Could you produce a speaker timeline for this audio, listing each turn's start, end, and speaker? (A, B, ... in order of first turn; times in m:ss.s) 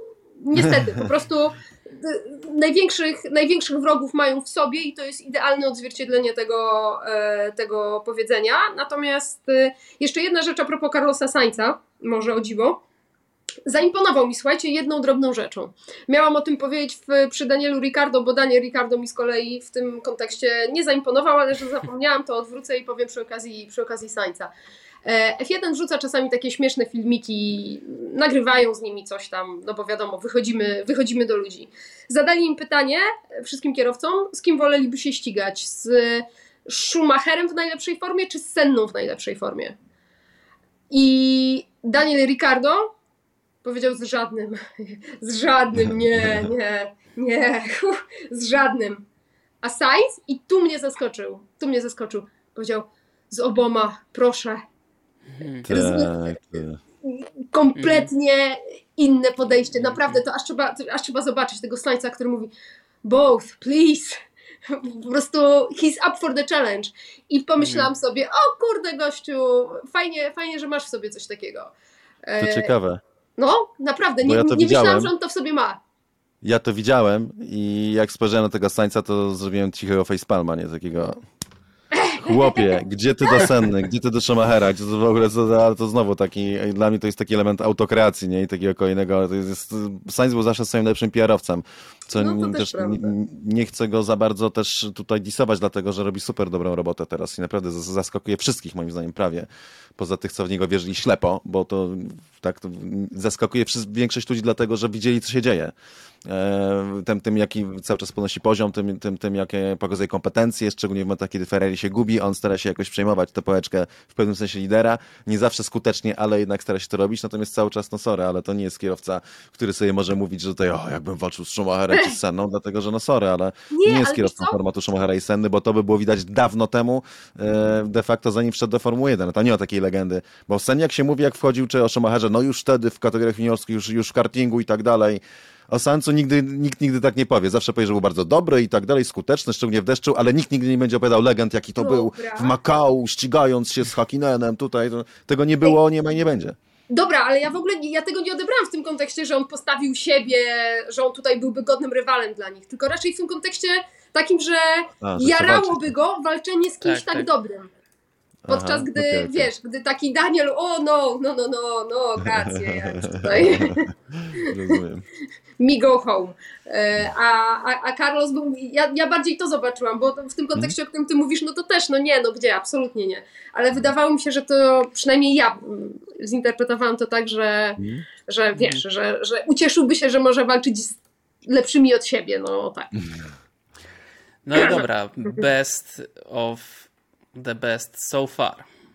0:00.4-0:12.8 A
0:13.6-0:24.5 A
0:25.0-0:39.8 A
0:40.9-0:42.9 A
0:43.6-0:49.0 A
0:49.6-0:54.6 A
0:55.4-0:55.7 B
0:55.6-0:56.8 C
0:55.7-0:56.2 A
0:57.0-1:02.5 A
0:57.8-0:58.1 B
0:59.9-1:00.2 B
1:03.0-1:11.7 A
1:07.6-1:07.9 B
1:12.2-1:12.7 A
1:12.4-1:13.0 C
1:13.4-1:15.8 A
1:14.2-1:15.1 C
1:16.4-1:21.2 C
1:21.9-1:22.7 A
1:22.1-1:39.5 C
1:32.2-1:33.1 A
1:40.0-1:45.7 C
1:46.2-2:26.6 C
2:03.7-2:04.6 A
2:21.8-2:22.6 A
2:26.9-2:37.7 A
2:35.0-2:35.9 C
2:36.8-2:37.3 B
2:38.5-2:39.5 C
2:38.5-2:44.8 A
2:42.2-2:45.0 C
2:45.6-3:02.9 A
2:57.8-2:58.0 C
3:04.4-3:08.7 B
3:04.5-3:04.8 A